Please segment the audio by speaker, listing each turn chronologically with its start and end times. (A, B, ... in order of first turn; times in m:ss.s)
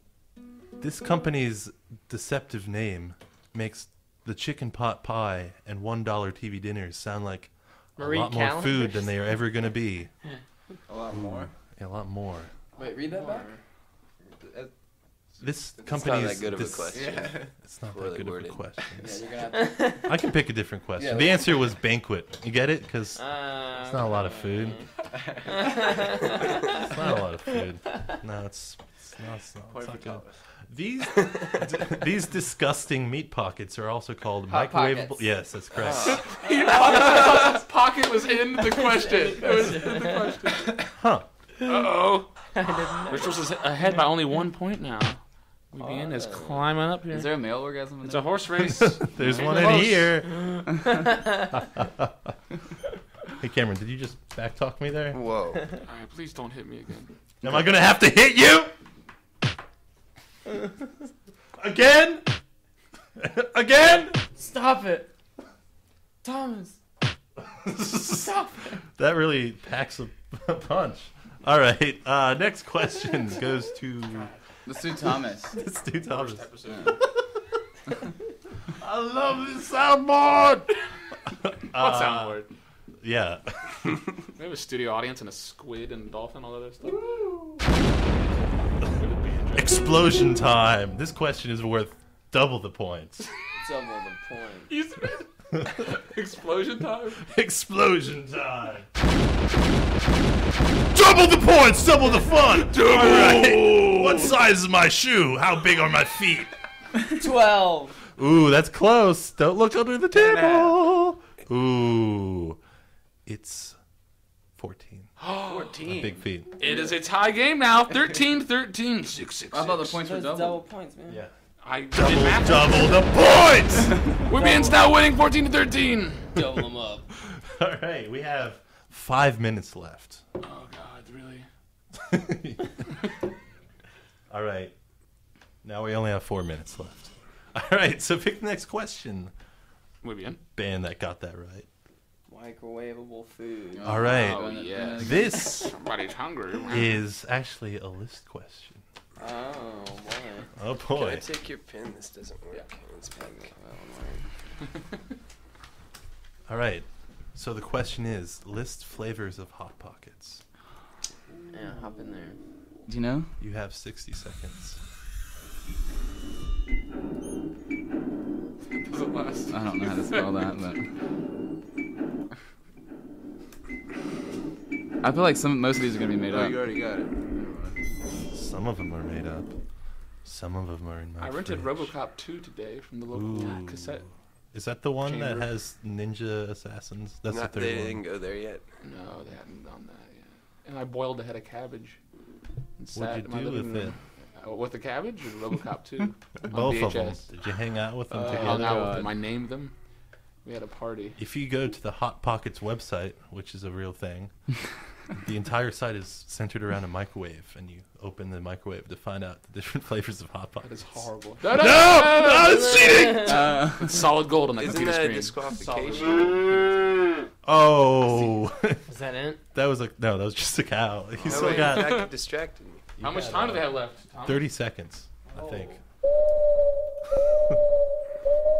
0:00.8-0:10.1 A
0:08.0-0:09.2 B
0:10.9-0:11.5 C
0:11.1-0:12.5 A
0:12.8-0:13.5 D
0:13.3-0:13.6 B
0:14.4-0:14.7 C
0:15.4-0:17.5 C
0:15.4-0:19.1 A
0:15.9-0:19.0 E
0:19.0-0:20.0 D
0:19.5-0:20.1 B
0:20.0-0:24.8 A
0:21.0-0:21.7 D
0:23.2-0:24.9 B
0:25.1-0:26.0 C
0:25.5-0:26.8 B
0:26.7-0:36.2 A
0:29.6-0:30.4 C
0:31.2-0:31.7 E
0:34.5-0:35.1 D
0:35.8-0:36.2 E
0:36.0-0:40.8 F
0:36.4-0:37.6 B
0:38.8-0:40.3 B
0:41.0-0:41.3 A
0:41.6-0:42.3 F
0:42.5-0:43.5 B
0:43.1-0:45.2 F
0:45.7-0:50.2 F
0:45.8-0:46.6 B
0:47.1-0:49.8 D
0:48.7-0:50.6 A
0:51.8-0:52.1 A
0:53.4-0:55.2 A
0:55.1-0:55.8 E
0:55.9-0:57.1 F
0:57.4-0:58.7 A
1:01.6-1:02.2 A
1:03.2-1:04.2 A
1:04.4-1:05.1 B
1:06.2-1:06.8 B
1:07.4-1:14.3 A
1:08.2-1:08.8 B
1:14.7-1:15.6 D
1:15.5-1:16.5 A
1:16.0-1:17.0 F
1:16.7-1:17.0 D
1:18.8-1:20.7 A
1:21.3-1:22.4 A
1:21.7-1:22.5 F
1:23.0-1:24.0 A
1:24.4-1:27.0 F
1:27.1-1:27.5 A
1:28.8-1:29.9 F
1:29.5-1:33.2 A
1:33.6-1:34.7 B
1:34.7-1:37.2 F
1:37.2-1:38.9 A
1:40.9-1:46.6 A
1:42.4-1:44.3 F
1:47.1-1:48.0 B
1:48.2-1:52.6 A
1:50.1-1:50.8 C
1:53.3-1:53.8 A
1:54.6-1:55.1 A
1:55.2-1:55.8 F
1:55.4-1:56.9 C
1:55.8-1:56.5 A
1:56.6-2:00.0 F
1:59.5-2:00.6 D
2:00.0-2:01.2 B
2:01.1-2:01.3 A
2:01.6-2:03.2 F
2:01.9-2:04.0 A
2:04.2-2:06.3 F
2:04.3-2:04.8 B
2:06.3-2:07.1 B
2:07.3-2:10.2 A
2:10.4-2:11.5 F
2:12.0-2:12.7 A
2:14.3-2:14.7 A
2:15.6-2:19.3 A
2:20.0-2:20.4 F
2:20.6-2:21.7 A
2:22.3-2:24.1 B
2:23.7-2:25.4 D
2:23.8-2:25.7 A
2:24.1-2:27.0 F
2:26.7-2:28.8 A
2:29.2-2:30.5 B
2:30.6-2:31.3 A
2:30.9-2:33.5 E
2:33.3-2:34.3 B
2:36.5-2:40.4 A
2:41.5-2:42.4 B
2:42.9-2:43.3 D
2:43.4-2:44.8 A
2:48.7-2:50.3 F
2:49.5-2:50.9 D
2:55.0-2:56.6 D
2:56.2-2:57.8 C
2:58.3-2:59.5 A
3:00.2-3:01.9 A
3:01.2-3:04.1 F
3:03.1-3:08.0 A
3:05.0-3:05.5 F
3:07.3-3:08.6 E
3:08.8-3:12.0 F
3:12.8-3:17.3 F
3:13.0-3:14.0 A
3:16.5-3:19.0 A
3:18.1-3:19.1 D
3:18.2-3:19.7 F
3:20.4-3:21.2 F
3:21.2-3:24.4 A
3:25.0-3:30.9 A
3:30.6-3:36.4 F
3:31.4-3:33.4 A
3:32.6-3:33.1 B
3:33.2-3:34.1 D
3:34.6-3:36.5 E
3:36.5-3:36.8 D
3:37.4-3:38.8 A
3:38.9-3:39.4 B
3:39.5-3:42.0 A
3:41.3-3:42.9 E
3:41.3-3:42.1 F
3:43.0-3:45.8 A
3:43.0-3:44.5 F
3:45.3-3:45.7 C